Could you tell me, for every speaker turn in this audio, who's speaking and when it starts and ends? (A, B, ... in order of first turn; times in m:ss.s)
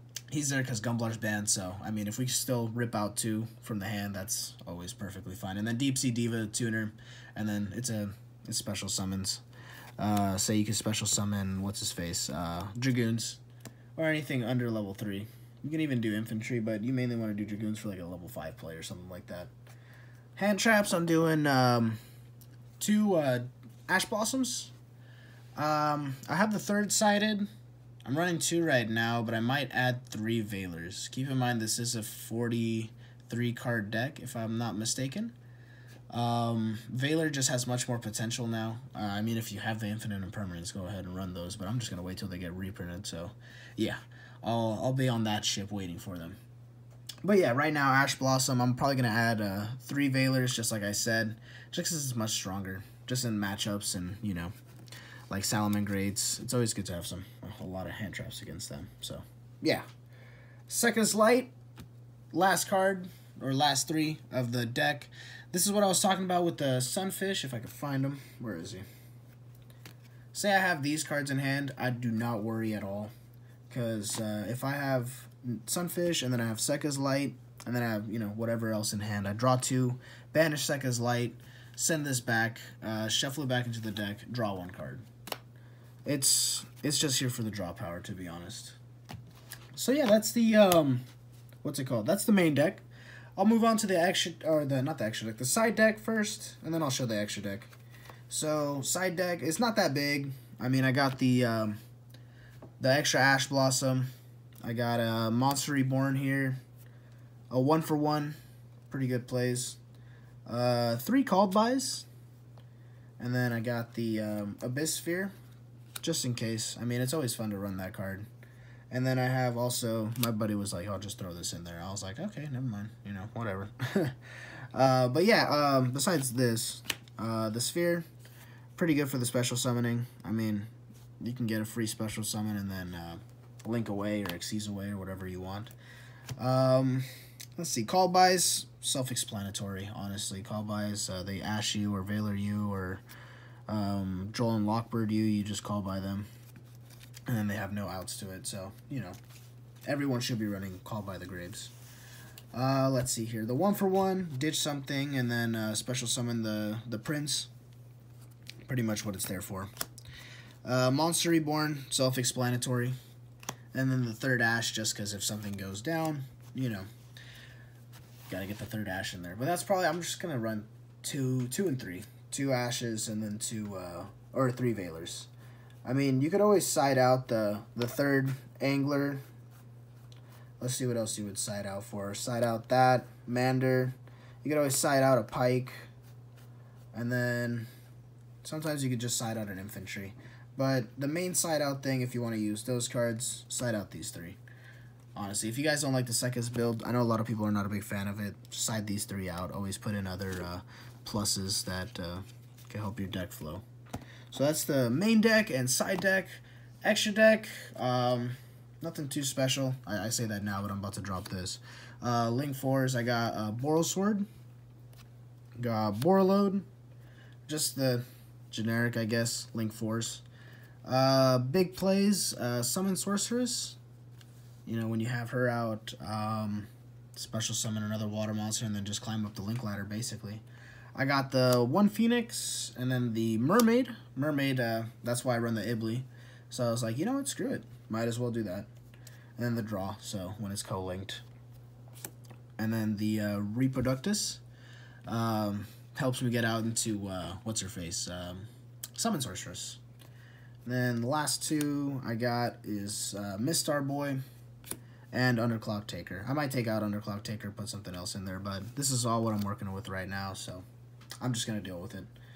0:00.3-0:09.4 A
0:10.0-0:13.4 A
0:14.0-0:19.5 A
0:20.4-0:22.0 A
0:22.8-0:24.7 A
0:25.6-0:27.5 A
0:28.0-0:35.3 A
0:36.1-0:46.4 A
0:47.2-0:54.5 A
0:55.3-0:59.8 A
1:00.7-1:01.5 A
1:02.3-1:08.8 A
1:10.3-1:13.1 A
1:13.7-1:25.0 A
1:26.0-1:28.8 A
1:29.7-1:31.0 A
1:31.6-1:32.8 A
1:33.4-1:37.7 A
1:38.3-1:41.8 A
1:42.8-1:44.1 A
1:44.6-1:46.6 A
1:47.5-1:48.4 A
1:48.9-1:49.8 A
1:50.4-1:52.1 A
1:53.2-1:55.3 A
1:56.0-1:58.3 A
1:58.9-2:04.2 A
2:04.7-2:08.1 A
2:08.8-2:10.7 A
2:11.2-2:15.7 A
2:16.4-2:23.0 A
2:23.7-2:26.3 A
2:27.3-2:29.2 A
2:29.8-2:31.7 A
2:32.5-2:37.5 A
2:38.6-2:39.7 A
2:40.6-2:42.9 A
2:43.7-2:46.9 A
2:48.3-2:55.3 A
2:55.8-2:59.2 A
3:00.6-3:05.8 A
3:06.9-3:07.7 A
3:08.4-3:14.4 A
3:15.1-3:23.6 A
3:24.3-3:34.3 A
3:35.6-3:36.6 A
3:37.5-3:40.2 A
3:40.8-3:43.8 A
3:44.6-3:58.7 A
3:59.4-4:01.2 A
4:02.6-4:04.4 A
4:05.0-4:09.8 A
4:10.6-4:14.2 A
4:15.1-4:20.6 A
4:21.2-4:22.1 A